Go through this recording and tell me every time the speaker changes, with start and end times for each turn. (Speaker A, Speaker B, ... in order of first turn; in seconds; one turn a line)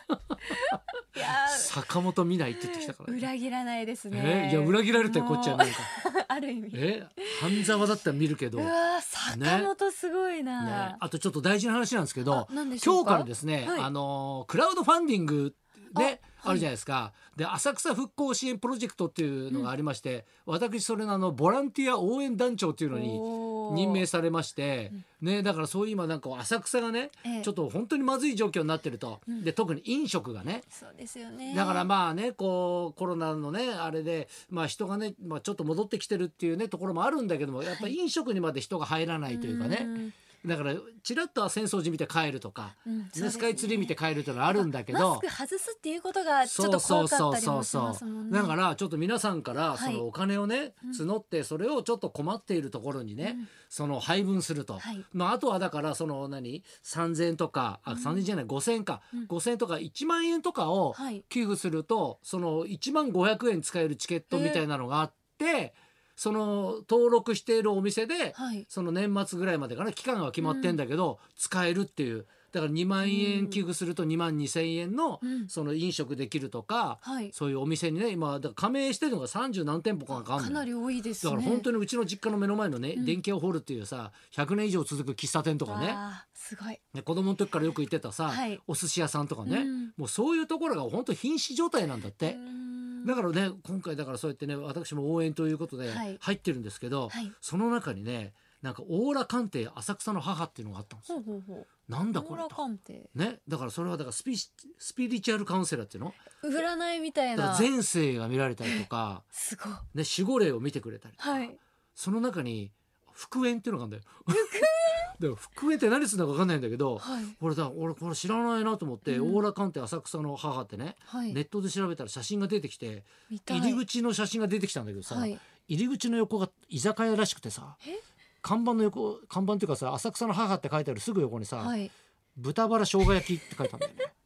Speaker A: 0.5-1.7
Speaker B: 1.2-3.3
Speaker A: 2.5-7.8
Speaker B: 4.1-5.9
Speaker B: 6.7-8.7
Speaker A: 8.6-11.0
Speaker B: 9.3-9.7
Speaker B: 10.6-30.6
Speaker A: 12.3-13.9
Speaker A: 15.9-16.7
Speaker A: 22.9-24.0
Speaker A: 27.2-27.5
Speaker A: 30.7-31.9
Speaker B: 31.5-45.2
Speaker A: 37.6-37.9
Speaker A: 39.3-40.1
Speaker A: 42.9-43.9
Speaker A: 44.5-48.5
Speaker B: 46.5-80.7
Speaker A: 49.7-50.0
Speaker A: 53.2-53.5
Speaker A: 54.8-55.0
Speaker A: 57.9-58.2
Speaker A: 60.9-61.2
Speaker A: 64.3-64.6
Speaker A: 68.3-68.7
Speaker A: 70.4-70.8
Speaker A: 73.0-73.6
Speaker A: 75.2-75.5
Speaker A: 77.0-77.3
Speaker A: 80.1-81.7
Speaker B: 81.2-86.0
Speaker A: 85.7-86.8
Speaker B: 86.9-92.4
Speaker A: 88.3-88.6
Speaker A: 89.4-89.9
Speaker A: 92.2-93.2
Speaker B: 93.0-101.2
Speaker A: 95.9-96.2
Speaker A: 101.1-103.1
Speaker B: 101.9-102.6
Speaker B: 103.1-106.2
Speaker A: 106.4-107.7
Speaker B: 107.3-109.2
Speaker A: 109.3-109.8
Speaker B: 109.9-127.8
Speaker A: 111.2-111.6
Speaker A: 114.3-115.1
Speaker A: 117.0-117.4
Speaker A: 119.0-119.4
Speaker A: 121.1-121.4
Speaker A: 123.3-123.8
Speaker A: 125.1-125.4
Speaker B: 128.4-131.8
Speaker A: 131.6-131.9
Speaker B: 132.3-134.1